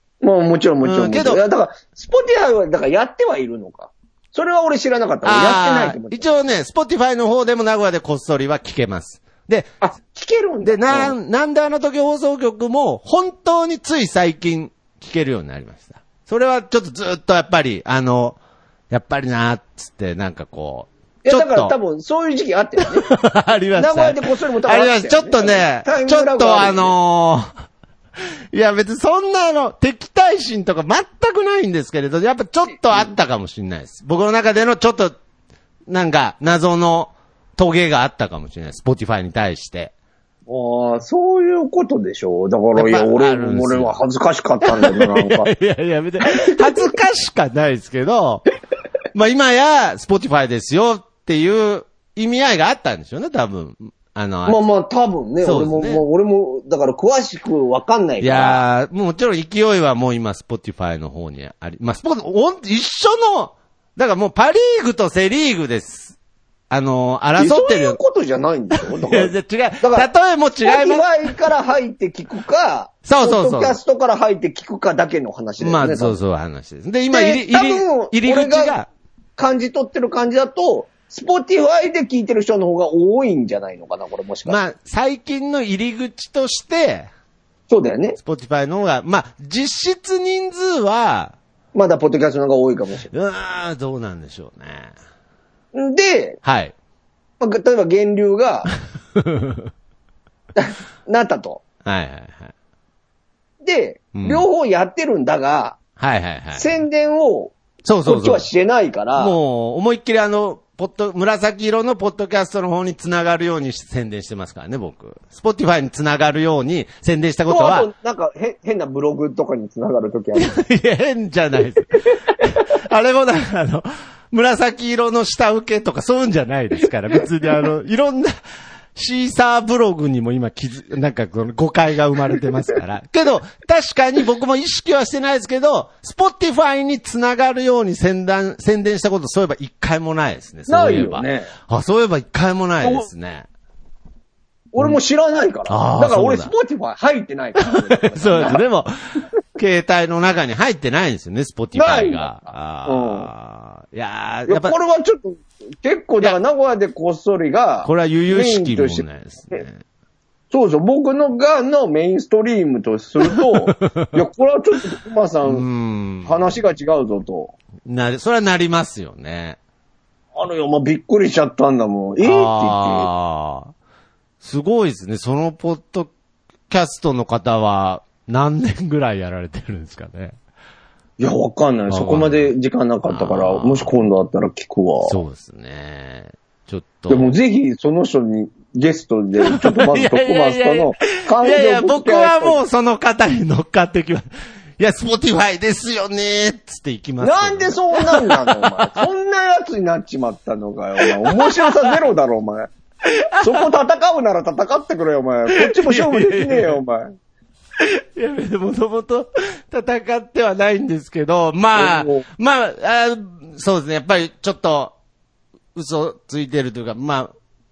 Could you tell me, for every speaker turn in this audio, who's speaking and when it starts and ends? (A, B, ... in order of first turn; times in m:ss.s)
0:00.2-0:06.3 A
0:00.8-0:01.4 B
0:05.2-0:09.8 B
0:09.8-0:11.2 A
0:10.6-0:18.4 B
0:18.9-0:21.8 B
0:21.2-0:23.1 A
0:22.9-0:27.5 B
0:23.8-0:27.0 A
0:28.5-0:35.2 B
0:35.9-0:39.9 B
0:40.5-0:45.5 A
0:42.8-0:44.0 B
0:44.6-0:48.4 B
0:46.4-0:46.9 A
0:49.1-0:54.6 B
0:54.5-0:58.6 A
0:55.4-0:56.0 B
0:58.2-1:06.2 B
1:06.7-1:08.0 B
1:07.4-1:10.1 A
1:08.9-1:11.1 B
1:10.6-1:16.2 A
1:13.0-1:13.8 B
1:15.6-1:18.9 B
1:17.1-1:18.8 A
1:19.4-1:24.6 A
1:24.5-1:27.1 B
1:27.7-1:28.2 A
1:28.2-1:31.4 B
1:31.7-1:33.1 A
1:33.1-1:34.9 B
1:35.7-1:36.4 A
1:36.4-1:36.7 B
1:37.4-1:38.7 A
1:39.2-1:39.7 B
1:40.6-1:41.6 A
1:41.8-1:42.5 B
1:43.6-1:45.8 A
1:44.1-1:44.5 B
1:46.0-1:46.7 B
1:46.5-1:49.4 A
1:47.8-1:48.5 B
1:49.2-1:57.9 B
1:57.5-2:00.6 A
2:00.4-2:08.4 B
2:09.0-2:23.5 B
2:20.7-2:21.5 A
2:22.8-2:23.1 A
2:24.7-2:28.6 A
2:25.7-2:26.5 B
2:27.7-2:34.8 B
2:31.7-2:32.3 A
2:32.9-2:33.3 A
2:34.5-2:39.6 A
2:37.8-2:39.8 B
2:40.5-2:45.7 A
2:43.3-2:44.1 B
2:45.5-2:46.6 B
2:46.2-2:47.5 A
2:47.8-2:49.6 B
2:50.4-2:53.1 A
2:52.2-2:53.7 B
2:54.4-2:56.1 B
2:56.7-3:00.4 B
3:01.2-3:05.2 A
3:01.9-3:02.5 B
3:03.1-3:03.9 B
3:05.1-3:07.3 B
3:07.1-3:12.6 A
3:09.4-3:19.1 B
3:17.2-3:22.7 A
3:21.0-3:21.9 B
3:23.3-3:23.6 B
3:23.4-3:27.2 A
3:25.6-3:26.8 B
3:27.8-3:34.9 B
3:31.8-3:32.2 A
3:35.8-3:37.3 B